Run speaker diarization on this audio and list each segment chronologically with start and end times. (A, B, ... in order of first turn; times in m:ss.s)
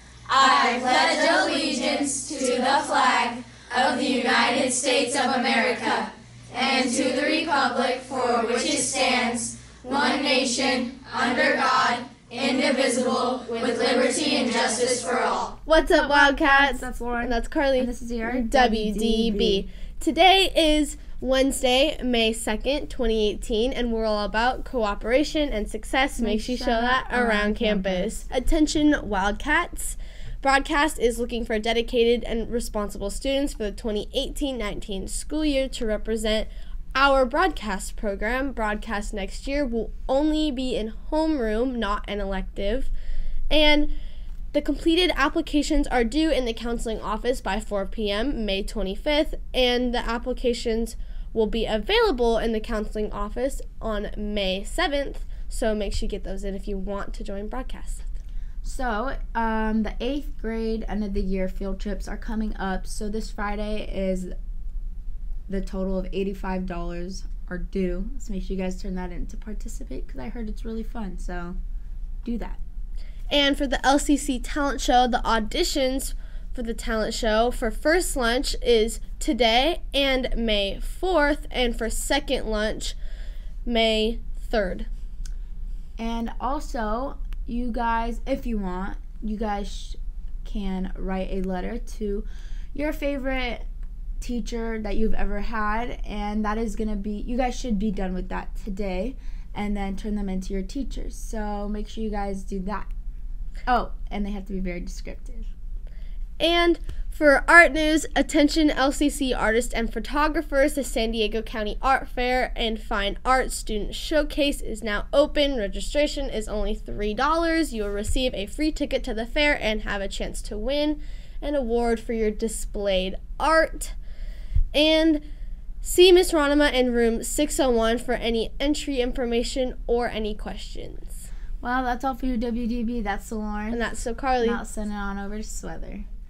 0:00.3-0:15.6 A
0:15.6-0:42.9 B
0:15.8-0:19.7 C
0:26.2-0:28.2 C
0:43.5-0:43.9 B
0:44.5-0:58.0 B
0:58.6-1:04.3 C
1:05.5-1:11.6 C
1:12.2-1:12.6 C
1:13.3-1:23.0 B
1:23.7-1:24.9 B
1:26.0-1:33.7 C
1:34.2-1:42.9 C
1:43.7-1:45.5 C
1:46.4-2:04.0 B
2:04.7-2:05.2 B
2:05.8-2:11.2 B
2:11.6-2:16.1 C
2:13.7-2:14.6 B